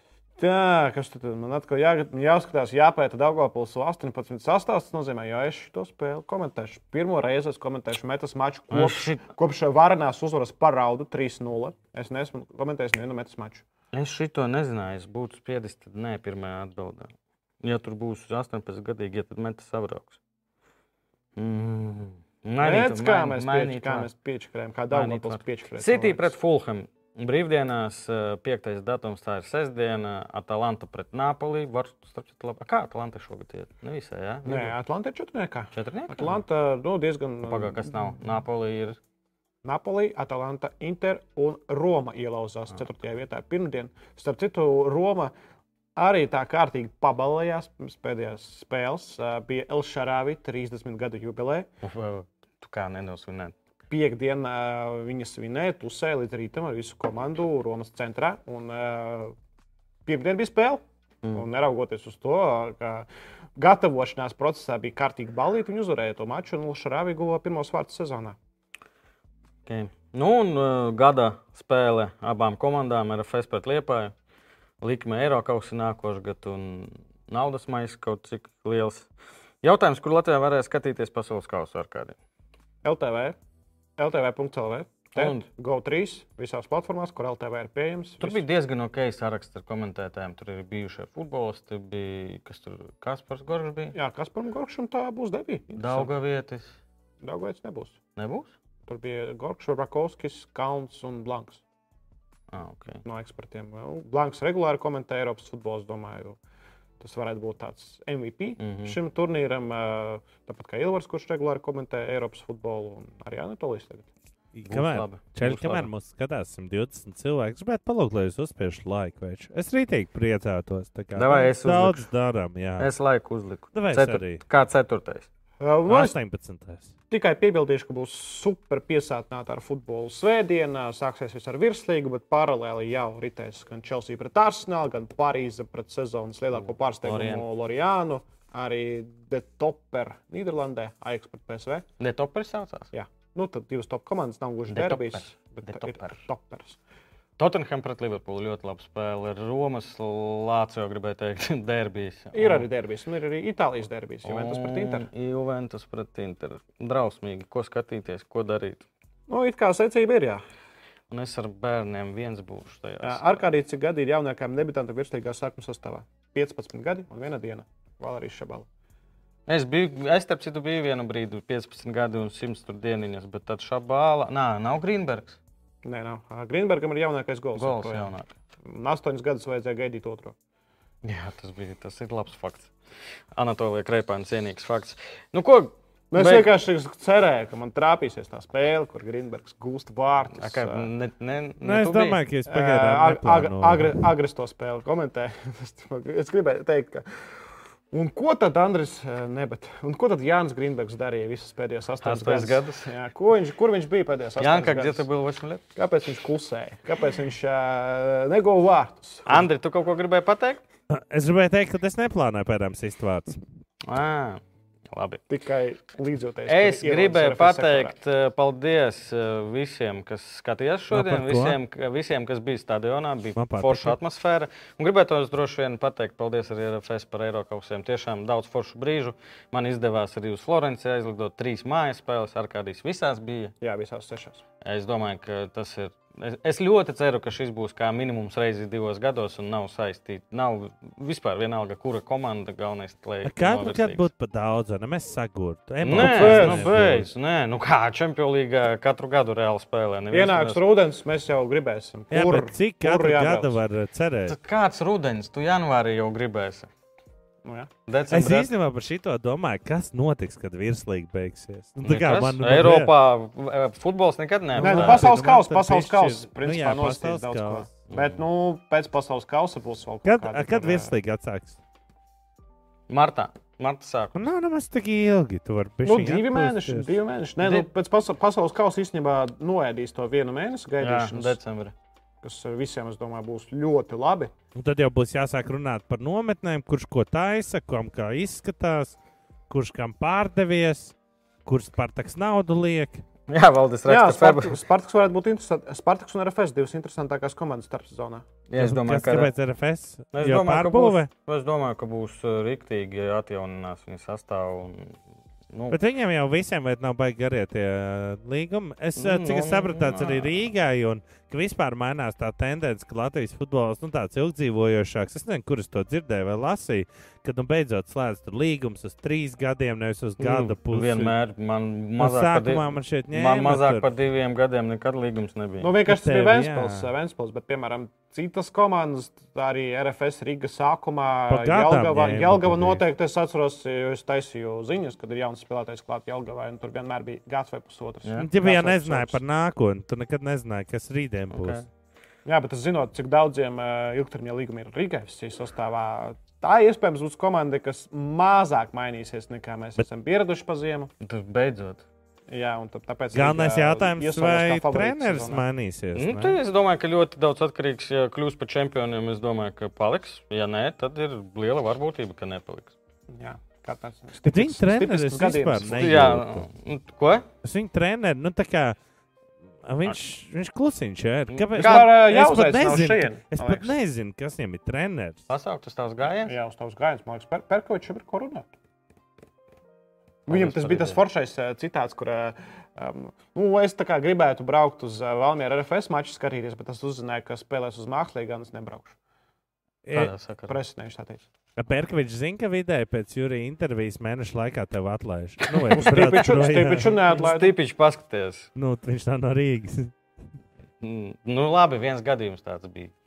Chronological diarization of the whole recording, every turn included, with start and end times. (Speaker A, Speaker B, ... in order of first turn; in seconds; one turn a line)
Speaker A: 0.4-13.6
Speaker B: 8.7-9.2
Speaker B: 13.9-20.2
Speaker B: 21.4-24.1
Speaker A: 22.6-26.3
Speaker B: 24.9-34.7
Speaker A: 34.4-38.1
Speaker B: 35.7-36.4
Speaker B: 37.5-39.0
Speaker A: 39.6-45.3
Speaker A: 46.0-51.7
Speaker B: 51.8-53.5
Speaker A: 53.9-59.3
Speaker A: 60.0-68.3
Speaker B: 69.7-74.1
Speaker B: 74.8-79.1
Speaker B: 79.6-82.2
Speaker A: 82.8-83.3
Speaker A: 84.0-88.4
Speaker B: 85.1-85.4
Speaker B: 88.2-93.9
Speaker A: 93.9-96.1
Speaker B: 95.8-96.8
Speaker A: 97.2-98.0
Speaker B: 98.2-98.5
Speaker A: 98.8-101.6
Speaker B: 102.5-103.0
Speaker A: 103.0-106.4
Speaker A: 107.0-114.1
Speaker B: 108.6-109.0
Speaker C: 114.5-122.9
Speaker B: 114.7-115.9
Speaker B: 121.1-122.1
Speaker B: 122.8-125.3
Speaker C: 123.7-124.4
Speaker A: 125.6-126.2
Speaker C: 125.9-126.9
Speaker A: 127.1-141.8
Speaker B: 136.5-137.4
Speaker B: 142.0-142.9
Speaker A: 142.9-146.8
Speaker B: 144.7-146.2
Speaker B: 147.4-152.7
Speaker A: 152.3-155.1
Speaker B: 154.2-158.8
Speaker A: 159.3-160.4
Speaker B: 161.1-163.4
Speaker A: 163.0-168.7
Speaker B: 169.5-175.4
Speaker A: 175.8-178.1
Speaker B: 177.6-178.3
Speaker A: 178.6-180.3
Speaker B: 181.0-182.7
Speaker B: 183.3-186.5
Speaker A: 186.1-190.9
Speaker B: 190.3-192.2
Speaker C: 191.6-194.0
Speaker A: 192.5-197.1
Speaker A: 197.9-205.1
Speaker B: 202.0-202.9
Speaker B: 204.4-205.6
Speaker A: 205.8-209.5
Speaker B: 209.2-210.6
Speaker C: 210.9-213.4
Speaker B: 213.8-215.2
Speaker A: 215.3-217.9
Speaker B: 216.5-233.5
Speaker C: 220.9-221.6
Speaker C: 223.3-223.9
Speaker A: 233.6-234.4
Speaker B: 234.6-244.1
Speaker C: 243.2-247.1
Speaker B: 245.8-250.6
Speaker A: 245.9-246.7
Speaker A: 250.1-253.6
Speaker C: 252.1-254.4
Speaker B: 254.3-256.7
Speaker A: 257.4-257.7
Speaker B: 257.9-258.5
Speaker C: 258.1-262.9
Speaker B: 261.8-265.1
Speaker C: 264.6-267.7
Speaker A: 264.6-270.9
Speaker B: 267.9-268.2
Speaker C: 270.0-271.6
Speaker B: 272.9-274.3
Speaker C: 274.1-276.9
Speaker A: 275.8-281.4
Speaker B: 277.4-277.7
Speaker B: 280.8-281.7
Speaker A: 282.2-284.3
Speaker C: 284.5-289.0
Speaker C: 289.5-290.9
Speaker C: 291.4-293.0
Speaker B: 293.3-294.6
Speaker A: 293.9-298.3
Speaker B: 298.5-299.3
Speaker C: 298.6-301.1
Speaker B: 300.1-305.0
Speaker B: 305.5-305.8
Speaker C: 305.7-321.1
Speaker B: 309.0-310.4
Speaker B: 320.2-325.7
Speaker C: 322.0-323.8
Speaker A: 325.6-339.2
Speaker C: 325.9-326.9
Speaker C: 331.3-332.8
Speaker B: 338.0-338.3
Speaker C: 338.2-341.6
Speaker B: 341.3-341.6
Speaker A: 342.2-350.9
Speaker B: 351.0-351.8
Speaker A: 352.3-355.4
Speaker C: 353.1-356.4
Speaker B: 355.9-362.7
Speaker A: 363.1-366.2
Speaker C: 364.2-366.4
Speaker B: 365.8-367.3
Speaker C: 367.4-368.8
Speaker C: 369.6-375.2
Speaker B: 371.3-371.9
Speaker A: 371.6-373.7
Speaker B: 375.3-376.3
Speaker A: 376.2-378.5
Speaker B: 380.3-381.0
Speaker A: 380.3-389.0
Speaker C: 389.8-390.1
Speaker B: 389.9-390.6
Speaker A: 390.5-391.3
Speaker C: 391.6-397.0
Speaker B: 395.6-398.5
Speaker A: 395.7-397.5
Speaker C: 398.6-399.9
Speaker B: 400.8-402.9